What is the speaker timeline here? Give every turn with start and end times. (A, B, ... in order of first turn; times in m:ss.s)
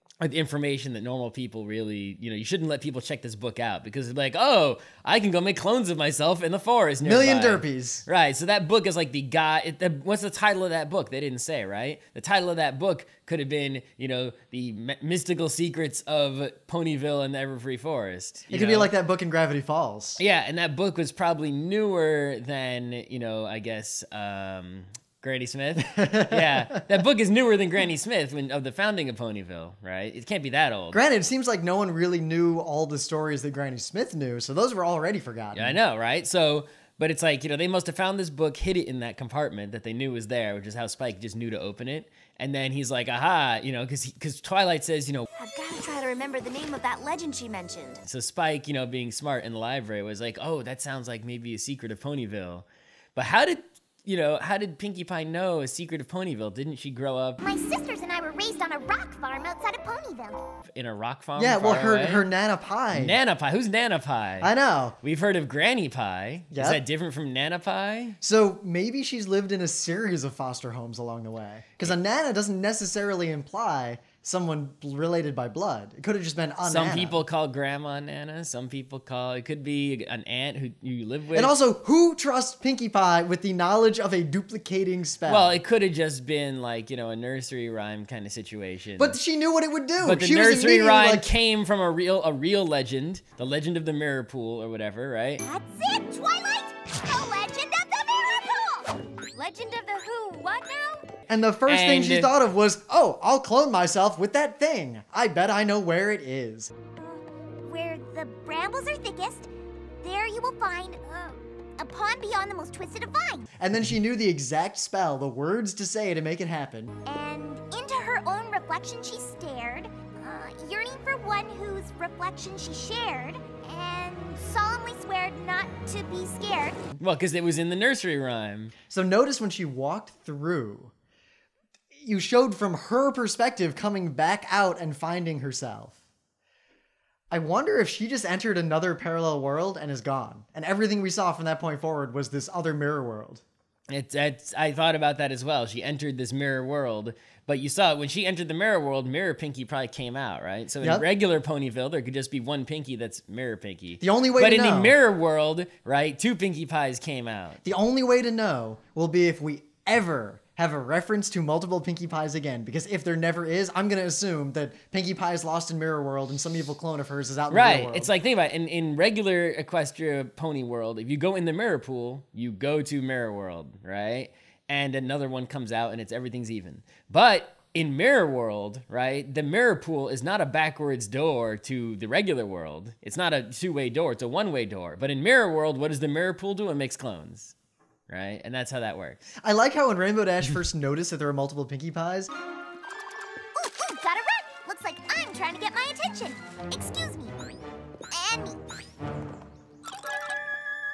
0:00.2-0:18.9 A
0:07.0-0:08.0 B
0:18.5-0:20.2 B
0:20.2-0:31.0 A
0:25.9-0:26.8 B
0:30.9-0:35.8 B
0:35.5-0:45.3 A
0:45.4-0:48.0 C
0:48.0-0:57.4 A
0:57.4-1:00.4 D
1:00.7-1:02.2 A
1:01.4-1:03.2 B
1:02.9-1:04.5 A
1:04.4-1:05.0 B
1:05.0-1:08.2 A
1:06.5-1:06.8 B
1:08.2-1:17.2 B
1:16.6-1:21.5 A
1:21.3-1:25.6 B
1:25.2-1:29.2 A
1:29.0-1:31.3 B
1:30.0-1:35.4 A
1:35.4-1:41.1 D
1:41.3-1:46.7 B
1:41.7-1:42.3 A
1:47.0-1:49.5 D
1:50.0-1:53.5 D
1:53.6-1:56.9 B
1:57.0-2:06.8 D
2:07.0-2:08.7 A
2:08.9-2:10.9 B
2:12.0-2:16.0 B
2:17.3-2:23.4 B
2:23.9-2:37.6 A
2:34.0-2:35.0 B
2:37.6-2:48.1 B
2:47.5-3:07.5 A
3:08.1-3:09.2 A
3:09.4-3:12.3 B
3:13.6-3:17.4 D
3:18.1-3:18.6 D